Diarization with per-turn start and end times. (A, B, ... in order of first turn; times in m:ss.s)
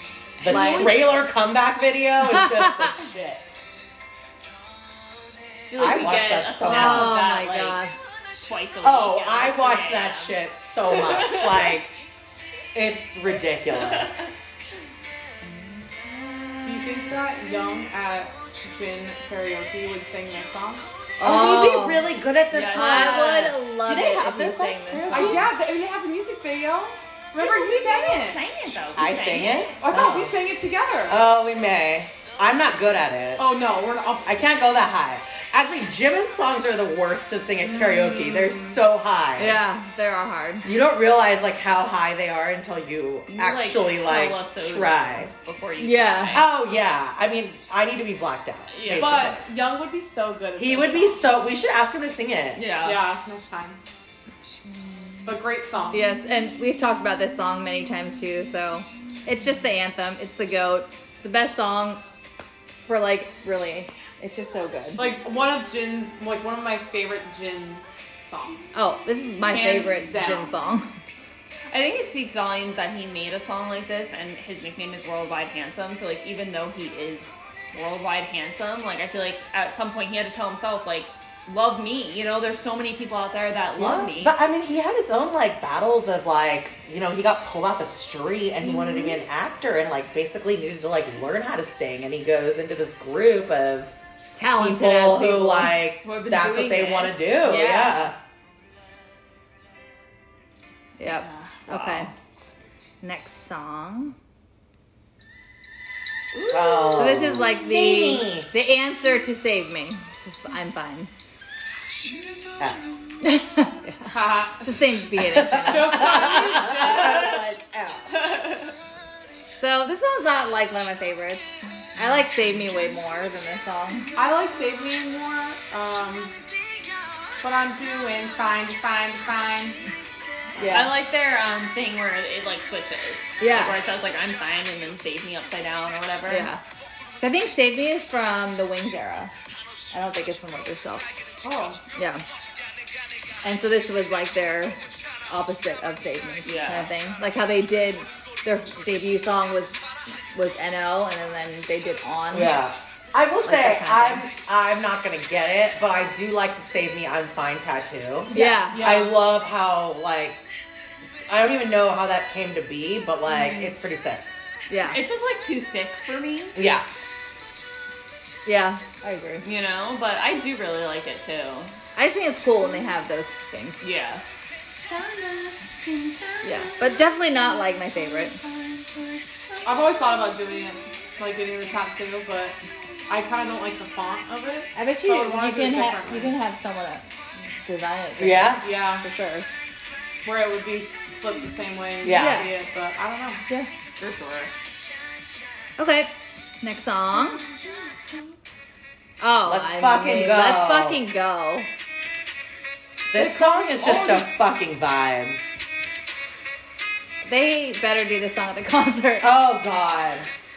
0:00.4-0:01.2 A
0:00.4-0:03.6 B
0:00.4-0:01.1 C
0:02.2-0:02.9 C
0:05.7-0:07.8 A
0:05.8-0:07.2 B
0:06.6-0:07.9 C
0:08.4-0:10.4 A
0:08.8-0:11.9 B
0:10.9-0:11.8 A
0:12.7-0:14.3 B
0:13.7-0:14.3 A
0:15.4-0:17.1 A
0:16.6-0:20.9 D
0:21.2-0:22.2 C
0:21.2-0:25.5 B
0:22.5-0:23.6 A
0:22.7-0:25.4 C
0:25.1-0:28.4 D
0:27.3-0:29.8 A
0:29.0-0:30.4 B
0:29.8-0:31.2 D
0:31.1-0:33.6 B
0:33.4-0:34.4 D
0:34.2-0:39.6 B
0:37.6-0:38.8 D
0:39.4-0:40.6 C
0:40.6-0:45.3 B
0:43.3-0:46.5 A
0:45.8-0:46.4 C
0:46.3-0:49.4 B
0:48.7-0:49.3 A
0:48.9-0:51.3 D
0:50.6-0:52.6 B
0:52.6-0:53.0 A
0:52.8-0:53.8 D
0:55.2-0:56.1 D
0:55.9-1:02.0 C
1:02.8-1:05.1 C
1:05.0-1:08.6 D
1:08.7-1:10.9 C
1:09.4-1:10.5 D
1:11.7-1:24.4 A
1:23.8-1:33.9 B
1:34.3-1:35.8 C
1:34.6-1:38.1 B
1:36.0-1:38.1 A
1:41.0-1:42.1 C
1:41.0-1:42.1 A
1:43.0-1:44.2 C
1:46.3-1:47.3 A
1:46.5-1:48.5 B
1:47.0-1:51.1 C
1:53.2-1:56.2 C
1:54.1-1:54.7 D
1:55.3-1:58.1 B
1:55.6-1:57.4 D
1:56.9-1:57.4 A
1:58.1-1:58.7 A
1:59.6-2:01.4 C
2:02.0-2:04.1 C
2:04.2-2:06.3 D
2:07.4-2:09.8 D
2:10.6-2:10.9 C
2:10.7-2:16.5 A
2:13.4-2:13.7 C
2:16.3-2:16.6 C
2:17.2-2:19.3 C
2:19.9-2:21.1 C
2:21.4-2:21.8 D
2:22.0-2:22.2 C
2:23.4-2:32.6 C
2:26.4-2:26.9 A
2:32.3-2:40.4 B
2:33.4-2:34.2 C
2:38.3-2:39.0 C
2:38.4-2:39.1 D
2:41.3-2:44.2 B
2:43.3-2:43.8 A
2:44.7-2:45.0 C
2:44.9-2:46.6 A
2:46.5-2:46.8 B
2:48.4-2:49.4 C
2:49.4-2:51.8 A
2:52.0-2:53.8 C
2:53.8-2:54.2 A
2:54.8-3:00.2 A
2:56.4-2:58.4 C
2:59.6-3:02.6 D
3:03.1-3:06.4 D
3:04.7-3:07.1 C
3:07.6-3:09.5 C
3:08.2-3:08.6 B
3:08.6-3:09.0 D
3:10.2-3:13.4 D
3:12.0-3:12.5 B
3:12.1-3:12.5 C
3:14.0-3:14.5 A
3:15.8-3:17.4 C
3:17.4-3:18.1 A
3:19.2-3:21.7 C
3:19.4-3:21.0 B
3:23.1-3:25.4 B
3:23.2-3:24.2 A
3:27.2-3:29.3 C
3:29.2-3:30.3 B